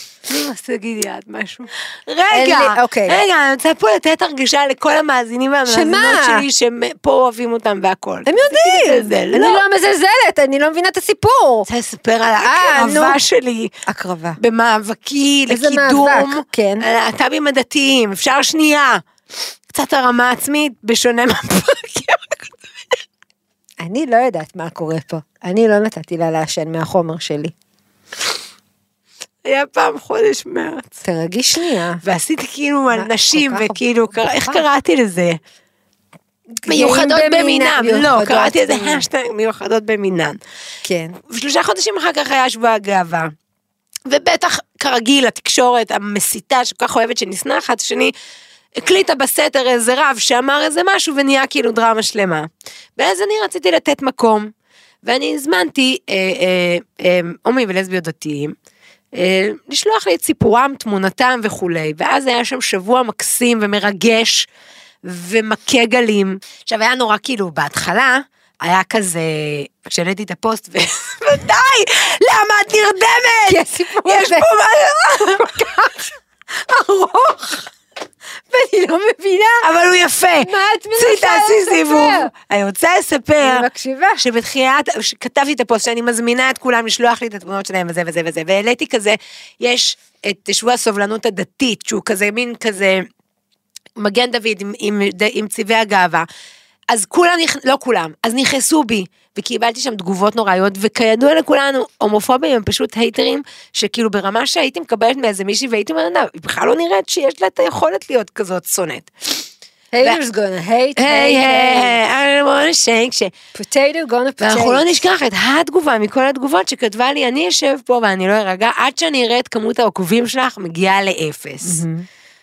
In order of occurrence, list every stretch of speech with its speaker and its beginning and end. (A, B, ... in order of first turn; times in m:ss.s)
0:00.2-0:09.6 A
0:02.3-0:03.2 B
0:05.7-0:06.4 B
0:08.2-0:11.7 B
0:11.7-0:13.7 A
0:12.4-0:13.2 B
0:13.8-0:14.4 B
0:14.4-0:19.0 A
0:15.5-0:16.9 B
0:19.7-0:23.0 A
0:23.8-0:27.5 B
0:29.4-0:31.0 A
0:31.0-0:32.0 B
0:32.0-0:35.4 A
0:32.9-0:34.6 B
0:36.5-0:39.0 B
0:36.7-0:40.4 A
0:40.8-0:41.2 B
0:41.3-0:43.3 A
0:44.1-0:48.1 A
0:48.7-0:54.5 A
0:55.0-0:58.5 A
0:59.1-1:04.5 A
1:05.0-1:15.9 A
1:13.5-1:14.5 B
1:15.2-1:16.1 B
1:16.6-1:17.7 B
1:18.5-1:19.7 B
1:19.6-1:23.6 A
1:20.4-1:22.3 B
1:23.4-1:24.2 B
1:24.2-1:33.0 A
1:34.0-1:36.2 A
1:36.9-1:49.5 A
1:49.9-1:52.0 B
1:51.0-1:53.3 A
1:53.5-1:55.0 B
1:54.4-2:01.8 A
2:01.6-2:02.0 B